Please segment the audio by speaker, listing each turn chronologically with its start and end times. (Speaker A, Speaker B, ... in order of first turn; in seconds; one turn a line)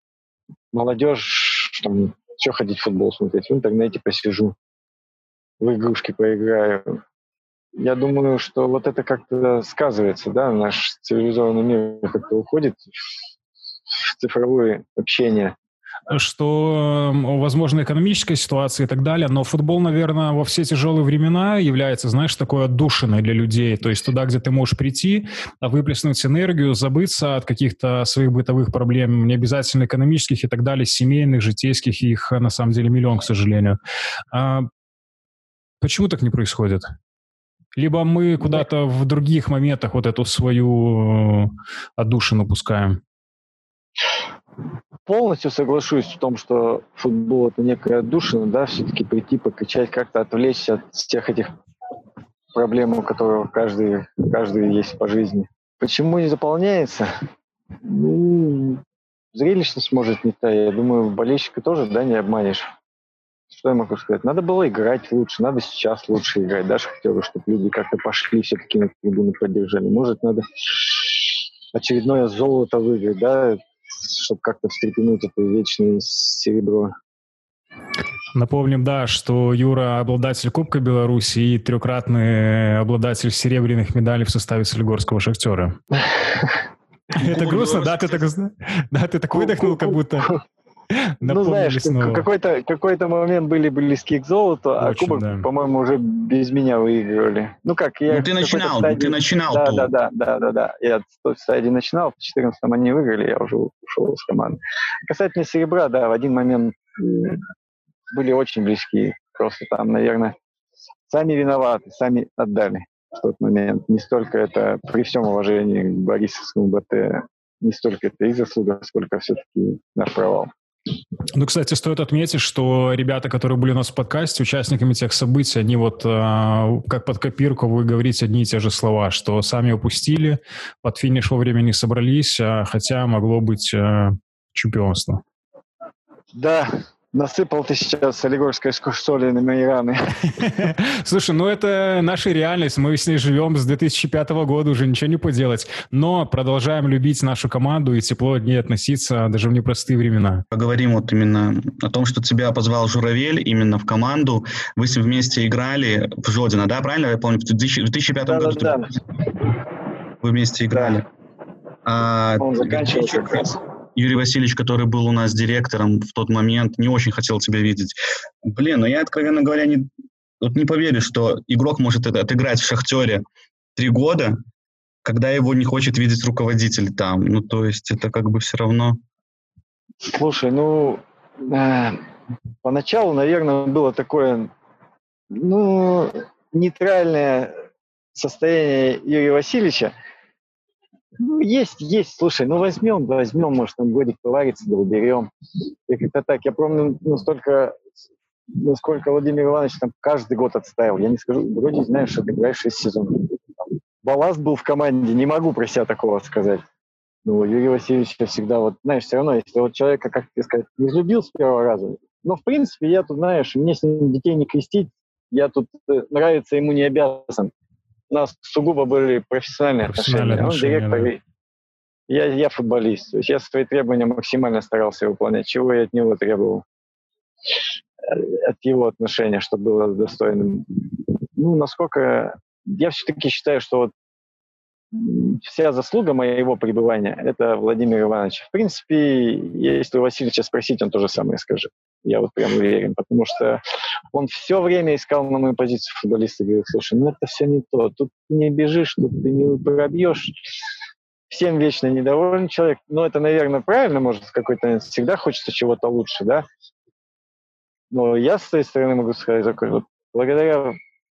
Speaker A: 0.7-4.5
Speaker A: 5.6-7.0
Speaker A: 7.8-12.8
Speaker A: 14.0-15.6
Speaker B: 16.1-33.8
Speaker B: 34.3-34.7
Speaker B: 35.8-36.9
Speaker B: 37.7-43.0
Speaker A: 45.0-51.5
Speaker A: 52.5-57.1
Speaker A: 57.8-58.8
Speaker A: 59.3-62.7
Speaker A: 63.5-76.9
Speaker B: 78.3-85.8
Speaker A: 85.9-86.6
Speaker B: 87.2-90.3
Speaker C: 87.2-88.2
Speaker A: 89.3-90.4
Speaker B: 90.9-92.2
Speaker A: 91.2-107.5
Speaker B: 94.8-95.5
Speaker C: 98.1-99.9
Speaker A: 108.1-110.3
Speaker A: 111.1-120.5
Speaker B: 121.3-135.2
Speaker A: 136.3-140.4
Speaker B: 140.3-150.4
Speaker C: 150.5-158.8
Speaker A: 158.3-158.9
Speaker C: 160.2-161.1
Speaker A: 160.7-161.0
Speaker C: 161.8-169.9
Speaker A: 162.4-163.6
Speaker C: 170.4-173.2
Speaker C: 173.8-174.4
Speaker C: 175.1-179.0
Speaker A: 180.1-182.0
Speaker A: 182.6-184.5
Speaker A: 185.3-187.6
Speaker A: 188.1-189.9
Speaker A: 191.2-195.3
Speaker A: 195.9-197.8
Speaker A: 198.5-203.4
Speaker A: 204.0-206.6
Speaker A: 207.2-217.5
Speaker A: 218.1-221.2
Speaker B: 219.8-221.1
Speaker A: 222.1-226.6
Speaker A: 228.0-233.9
Speaker A: 234.9-243.6
Speaker A: 244.1-250.6
Speaker A: 251.3-256.4
Speaker A: 257.9-260.8